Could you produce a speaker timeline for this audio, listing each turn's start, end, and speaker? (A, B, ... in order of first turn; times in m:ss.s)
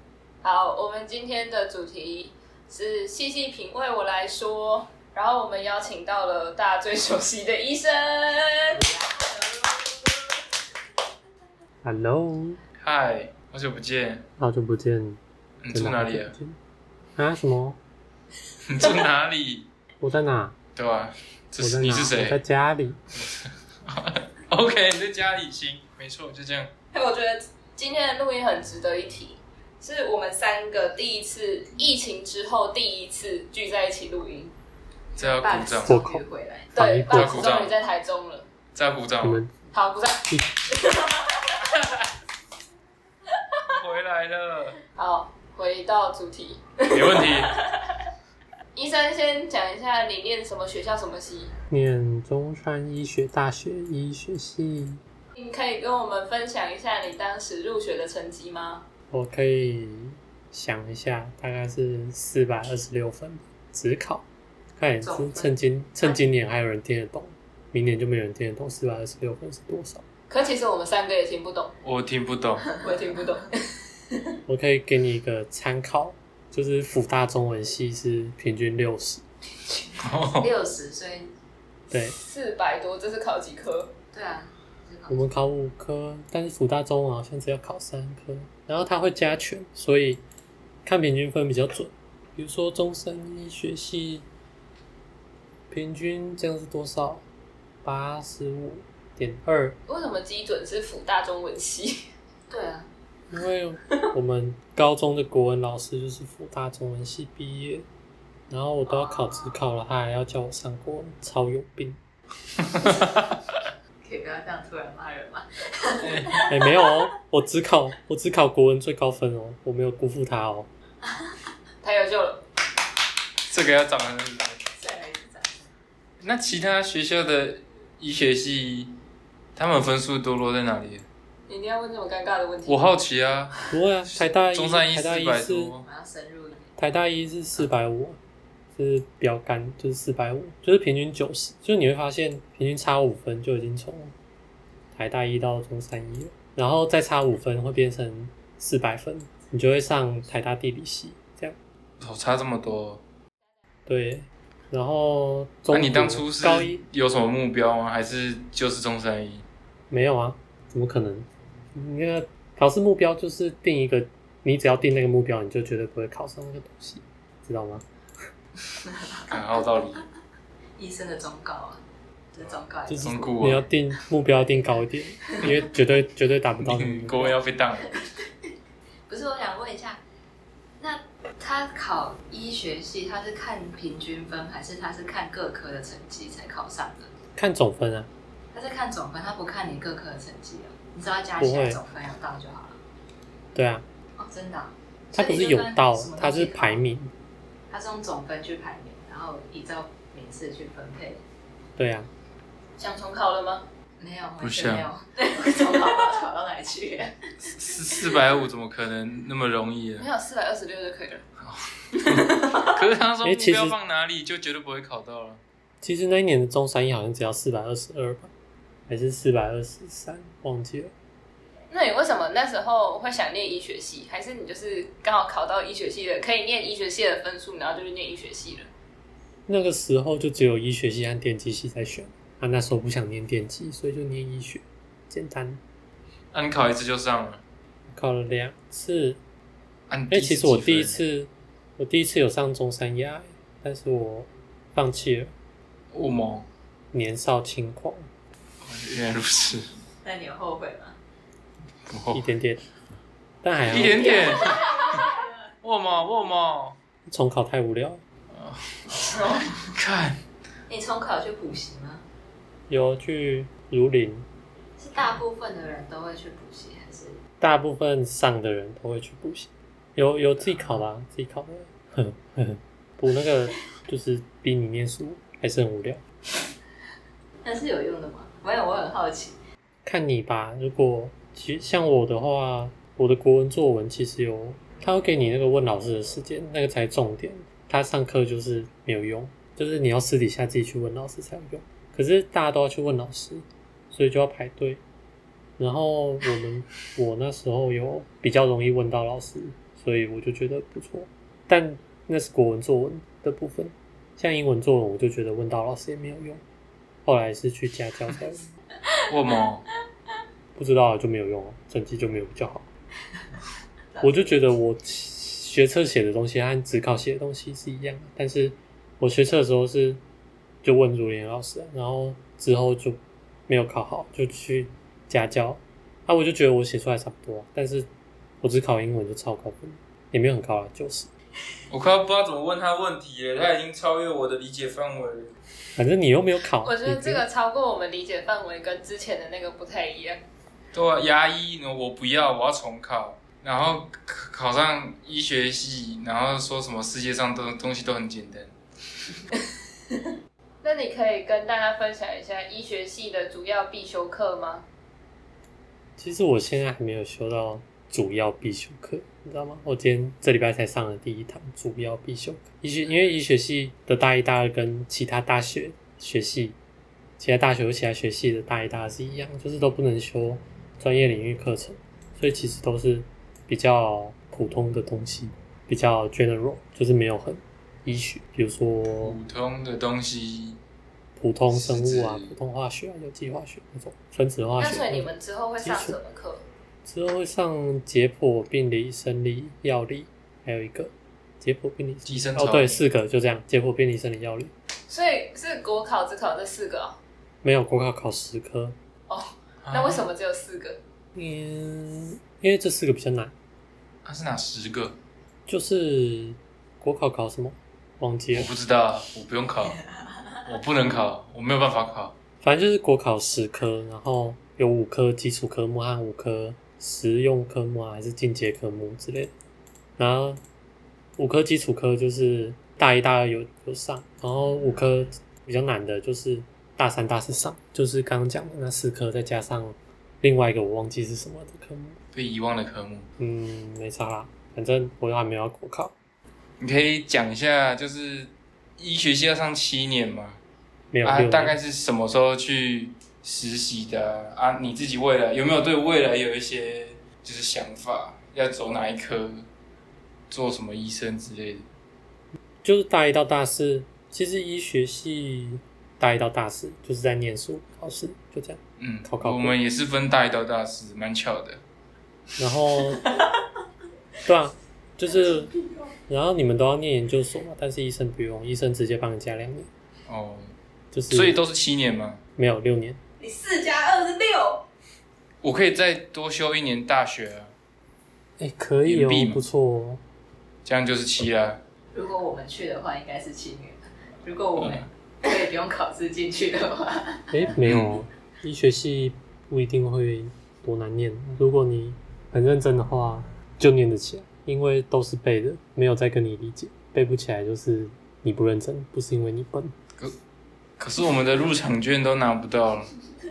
0:00.4-0:08.9 A
0:11.8-0:12.6 B
0:12.8-0:14.2 C
0:14.4-0:15.2 B
0:15.6-0:16.3 C
0:15.7-0:16.6 B
0:17.2-0:17.8 B
0:18.7-0:19.7 C
0:20.0-0:20.6 B
0:20.7-0:22.4 C
0:21.6-0:23.0 B
0:23.9-0:26.7 C
0:26.9-0:34.5 A
0:35.2-0:36.0 C
0:35.2-0:36.7 D
0:35.8-0:37.5 B
0:36.7-0:38.5 A
0:37.1-0:37.8 C
0:38.7-0:39.4 C
0:39.2-0:39.5 B
0:39.7-0:41.6 A
0:41.6-0:42.0 C
0:43.6-0:44.8 C
0:45.0-0:47.9 A
0:46.9-0:47.5 C
0:48.7-0:51.5 A
0:51.7-0:55.0 B
0:55.3-0:58.8 A
0:59.1-1:04.2 B
1:04.8-1:10.0 B
1:05.0-1:05.6 D
1:10.3-1:11.8 A
1:11.8-1:12.7 C
1:12.8-1:13.0 D
1:12.8-1:14.3 A
1:14.5-1:19.2 B
1:19.7-1:21.3 D
1:20.0-1:20.5 C
1:21.9-1:22.2 B
1:22.2-1:23.9 A
1:24.1-1:25.3 D
1:25.1-1:30.2 B
1:30.8-1:34.2 B
1:35.7-1:37.2 B
1:37.8-1:39.8 B
1:39.9-1:42.1 A
1:42.5-1:42.9 D
1:43.3-1:47.8 B
1:48.5-1:52.0 B
1:48.9-1:49.4 D
1:52.7-1:53.0 C
1:54.0-1:57.0 D
1:56.0-1:56.4 C
1:56.5-2:00.7 B
2:01.0-2:01.3 D
2:01.8-2:02.4 A
2:03.5-2:04.6 C
2:04.8-2:05.7 D
2:06.2-2:08.9 C
2:09.6-2:11.0 C
2:11.5-2:12.9 A
2:12.7-2:15.8 C
2:13.7-2:15.7 B
2:15.8-2:16.7 D
2:16.8-2:18.2 B
2:18.8-2:24.1 B
2:24.9-2:31.6 B
2:32.0-2:33.0 C
2:33.9-2:36.8 B
2:35.7-2:39.4 C
2:39.9-2:47.8 B
2:48.9-2:49.3 D
2:49.2-2:50.0 C
2:50.8-2:51.8 D
2:52.3-2:53.6 D
2:52.9-2:57.4 B
2:53.0-2:53.6 C
2:54.4-2:55.6 D
2:56.6-2:57.9 C
2:57.9-2:58.3 D
2:59.1-3:00.0 D
3:00.8-3:07.1 D
3:07.4-3:08.1 B
3:08.5-3:12.8 D
3:11.4-3:11.8 B
3:13.5-3:13.8 B
3:14.2-3:16.8 D
3:15.1-3:17.1 B
3:17.7-3:21.2 D
3:21.8-3:22.1 B
3:22.8-3:23.7 A
3:24.0-3:27.2 D
3:24.4-3:24.9 C
3:25.6-3:26.1 A
3:27.4-3:30.0 C
3:30.0-3:31.2 A
3:31.4-3:35.4 C
3:33.2-3:33.8 B
3:35.8-3:38.3 B
3:38.9-3:40.9 B
3:41.7-3:48.7 A
3:49.5-3:55.6 B
3:56.3-3:57.4 C
3:57.9-3:59.2 B
3:59.9-4:01.0 C
4:00.1-4:05.3 B
4:05.9-4:06.5 C
4:06.9-4:08.1 B
4:08.6-4:09.7 C
4:10.0-4:11.0 D
4:11.9-4:12.2 C
4:12.1-4:12.6 B
4:13.4-4:14.4 B
4:13.6-4:15.0 C
4:13.8-4:15.3 D
4:14.5-4:14.8 A
4:15.6-4:16.8 C
4:17.1-4:18.0 B
4:18.3-4:20.2 C
4:19.1-4:19.4 D
4:20.7-4:22.0 D
4:22.7-4:24.2 B
4:24.8-4:27.2 D
4:27.4-4:36.0 B
4:37.4-4:39.4 D
4:39.8-4:54.8 B
4:55.6-5:06.4 B
5:07.0-5:08.5 B
5:09.1-5:09.6 C
5:10.6-5:12.6 B
5:14.0-5:20.0 B
5:20.6-5:27.9 B
5:28.4-5:31.1 B
5:31.7-5:35.3 C
5:35.8-5:37.2 B
5:36.6-5:40.2 A
5:40.7-5:48.5 C
5:50.6-5:54.6 A
5:56.0-6:06.6 B
6:07.2-6:19.2 B
6:19.0-6:20.6 C
6:21.2-6:26.0 B
6:21.5-6:22.4 C
6:24.6-6:26.4 A
6:26.8-6:34.5 B
6:32.0-6:32.8 C
6:34.9-6:37.0 A
6:37.4-6:38.8 B
6:39.1-6:40.8 A
6:39.6-6:40.1 C
6:41.2-6:43.3 B
6:44.0-6:45.0 C
6:45.5-6:48.5 B
6:48.3-6:49.8 C
6:50.4-6:52.1 C
6:52.4-6:59.3 B
7:00.0-7:00.4 B
7:01.2-7:12.0 B
7:12.1-7:13.1 C
7:13.2-7:15.9 B
7:16.6-7:20.4 C
7:20.9-7:21.6 B
7:21.0-7:29.4 C
7:30.3-7:31.7 C
7:32.6-7:39.6 B
7:38.8-7:41.6 C
7:42.4-7:43.1 B
7:44.2-7:45.5 B
7:46.1-7:49.7 B
7:50.1-7:50.5 C
7:50.9-7:51.4 B
7:51.1-7:52.2 C
7:52.4-7:53.0 B
7:53.2-7:54.6 D
7:55.4-7:57.5 C
7:58.4-8:00.0 B
7:58.8-7:59.4 C
8:00.6-8:01.6 C
8:01.9-8:07.5 D
8:04.6-8:04.8 C
8:07.3-8:19.7 B
8:07.6-8:08.0 C
8:20.8-8:22.9 C